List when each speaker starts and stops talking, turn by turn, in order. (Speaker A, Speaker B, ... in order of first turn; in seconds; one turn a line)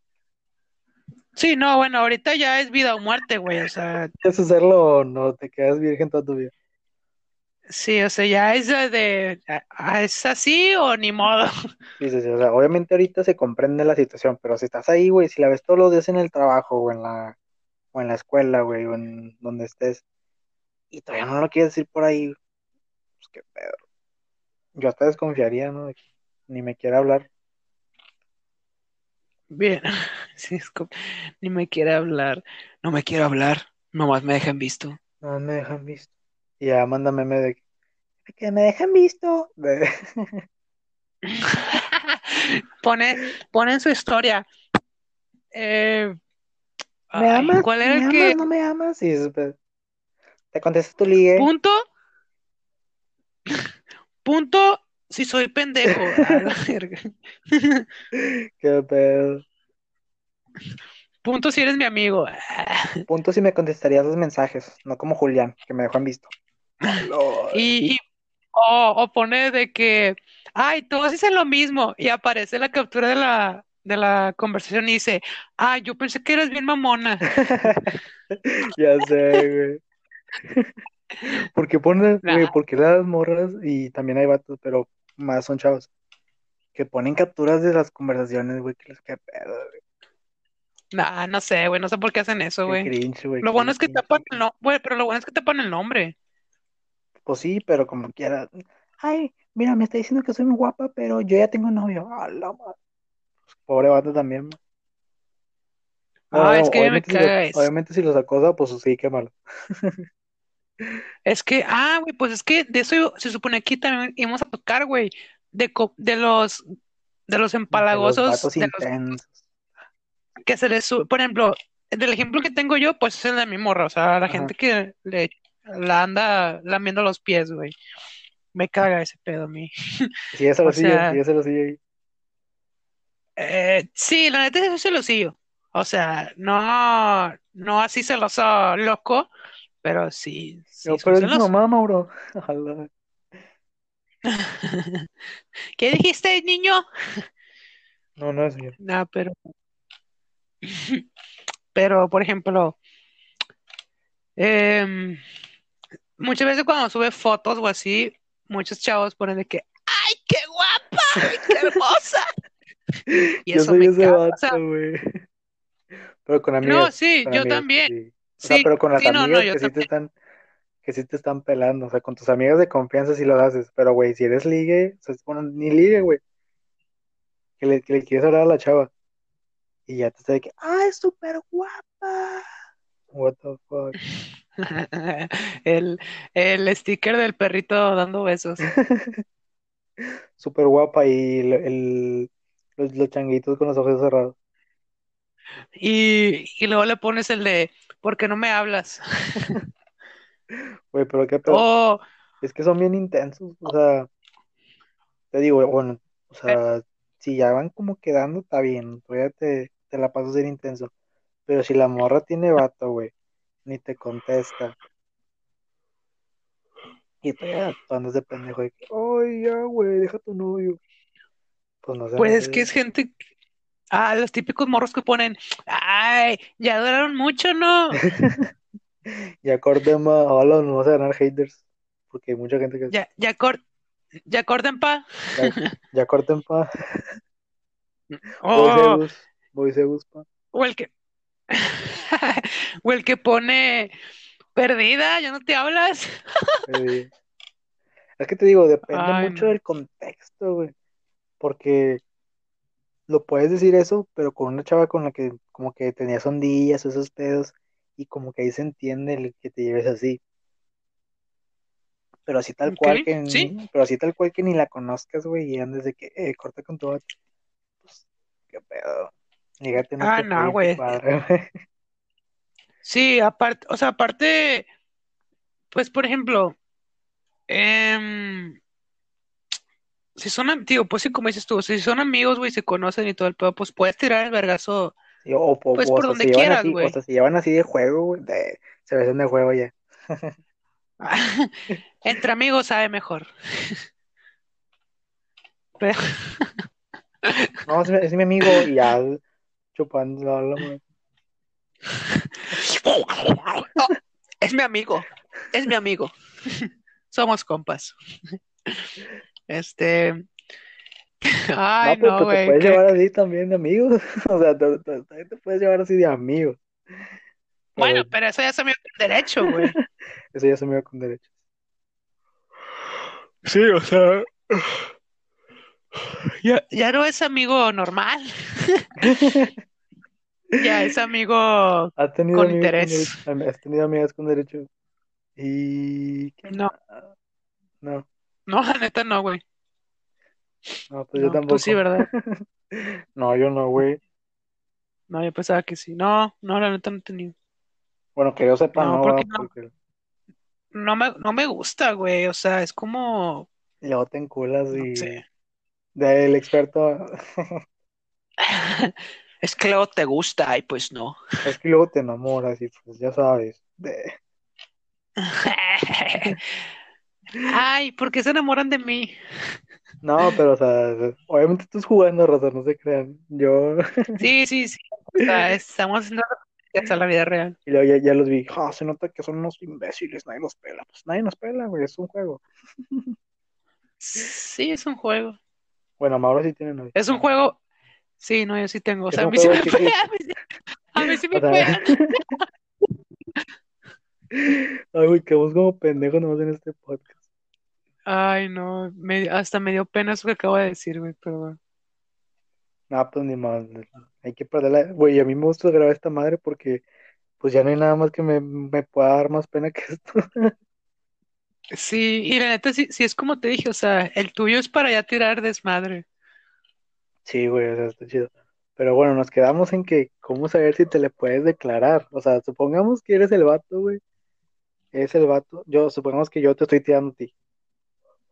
Speaker A: 1.4-4.1
Speaker B: 4.2-6.5
Speaker A: 7.7-11.5
Speaker B: 12.0-17.4
Speaker B: 17.9-20.0
Speaker B: 20.9-22.4
Speaker B: 23.2-23.8
Speaker B: 24.8-27.3
Speaker A: 29.5-35.0
Speaker B: 35.2-36.1
Speaker B: 36.6-37.6
Speaker B: 38.2-40.4
Speaker A: 41.3-44.5
Speaker A: 45.5-46.2
Speaker A: 47.1-48.4
Speaker B: 47.1-49.6
Speaker B: 50.5-51.5
Speaker A: 51.4-51.8
Speaker A: 54.2-57.9
Speaker B: 58.1-59.4
Speaker A: 61.2-63.0
Speaker B: 63.1-66.3
Speaker B: 66.8-67.9
Speaker A: 67.5-68.0
Speaker A: 68.5-77.9
Speaker B: 77.4-79.8
Speaker B: 81.2-85.9
Speaker A: 82.2-82.5
Speaker B: 86.8-89.8
Speaker A: 90.9-92.9
Speaker B: 92.7-94.4
Speaker A: 93.4-96.2
Speaker B: 97.3-102.8
Speaker B: 103.6-104.6
Speaker A: 106.3-107.7
Speaker B: 106.3-110.0
Speaker A: 111.3-116.6
Speaker A: 117.3-118.9
Speaker B: 117.7-119.4
Speaker A: 120.4-127.8
Speaker A: 128.5-130.1
Speaker B: 130.3-131.8
Speaker A: 130.6-131.2
Speaker A: 133.4-139.3
Speaker A: 139.8-141.5
Speaker B: 140.8-142.9
Speaker A: 144.3-145.1
Speaker A: 145.8-146.8
Speaker B: 148.2-148.8
Speaker A: 148.8-149.4
Speaker A: 150.6-151.0
Speaker A: 151.7-152.8
Speaker A: 154.4-155.2
Speaker A: 156.2-162.3
Speaker B: 163.1-165.0
Speaker A: 163.5-164.6
Speaker B: 166.2-170.1
Speaker A: 166.6-169.9
Speaker B: 170.8-176.2
Speaker B: 177.6-178.9
Speaker B: 179.9-182.5
Speaker B: 183.1-184.0
Speaker A: 184.6-188.6
Speaker B: 188.8-189.2
Speaker B: 190.4-194.3
Speaker A: 195.8-199.6
Speaker B: 200.9-201.7
Speaker A: 201.5-202.0
Speaker B: 202.4-204.1
Speaker B: 205.3-210.9
Speaker B: 211.5-213.1
Speaker B: 213.7-214.8
Speaker B: 217.2-220.8
Speaker B: 221.8-222.7
Speaker A: 222.2-223.2
Speaker A: 223.9-228.0
Speaker B: 228.1-228.4
Speaker B: 229.4-233.0
Speaker A: 232.9-233.6
Speaker A: 234.3-235.6
Speaker B: 235.4-237.0
Speaker A: 238.1-239.0
Speaker B: 238.5-240.3
Speaker A: 240.5-240.9
Speaker A: 241.5-243.9
Speaker A: 244.6-246.2
Speaker B: 246.7-247.1
Speaker B: 248.2-250.7
Speaker A: 248.9-249.5
Speaker B: 251.4-252.0
Speaker B: 253.1-260.2
Speaker B: 262.3-267.0
Speaker A: 262.7-263.5
Speaker B: 268.5-271.5
Speaker A: 270.0-270.9
Speaker A: 272.8-274.7
Speaker A: 275.7-276.6
Speaker A: 277.5-278.6
Speaker A: 280.2-285.0
Speaker B: 285.2-290.3
Speaker A: 285.8-287.0
Speaker A: 291.0-293.8
Speaker A: 295.8-296.6
Speaker A: 297.3-297.5
Speaker B: 297.7-299.2
Speaker B: 299.8-300.8
Speaker A: 301.9-303.9
Speaker A: 304.4-308.0
Speaker A: 309.5-310.3
Speaker A: 311.6-312.9
Speaker B: 311.8-316.6
Speaker B: 317.8-318.1
Speaker A: 317.8-319.7
Speaker B: 319.4-319.8
Speaker B: 320.3-321.3
Speaker B: 323.5-324.4
Speaker A: 326.4-328.8
Speaker B: 329.0-329.5
Speaker A: 330.6-333.2
Speaker B: 332.0-334.7
Speaker B: 335.4-337.1
Speaker A: 338.5-339.4
Speaker B: 340.9-344.0
Speaker A: 341.2-342.1
Speaker A: 345.1-347.3
Speaker B: 348.2-349.7
Speaker A: 348.8-349.5
Speaker A: 350.8-353.5
Speaker B: 353.8-355.2
Speaker A: 354.7-355.2
Speaker B: 356.0-357.6
Speaker A: 358.4-361.2
Speaker B: 361.4-364.1
Speaker A: 365.2-366.4
Speaker A: 367.4-369.2
Speaker B: 370.0-373.8
Speaker A: 374.2-377.6
Speaker B: 377.7-383.1
Speaker A: 384.0-385.4
Speaker B: 386.0-386.9
Speaker A: 386.9-387.6
Speaker A: 388.2-390.4
Speaker B: 389.1-390.0
Speaker A: 391.0-392.4
Speaker B: 391.3-392.1
Speaker B: 394.3-397.1
Speaker A: 398.1-401.6
Speaker B: 402.9-406.8
Speaker B: 407.4-410.5
Speaker A: 411.7-416.1
Speaker B: 417.3-424.0
Speaker B: 424.9-427.3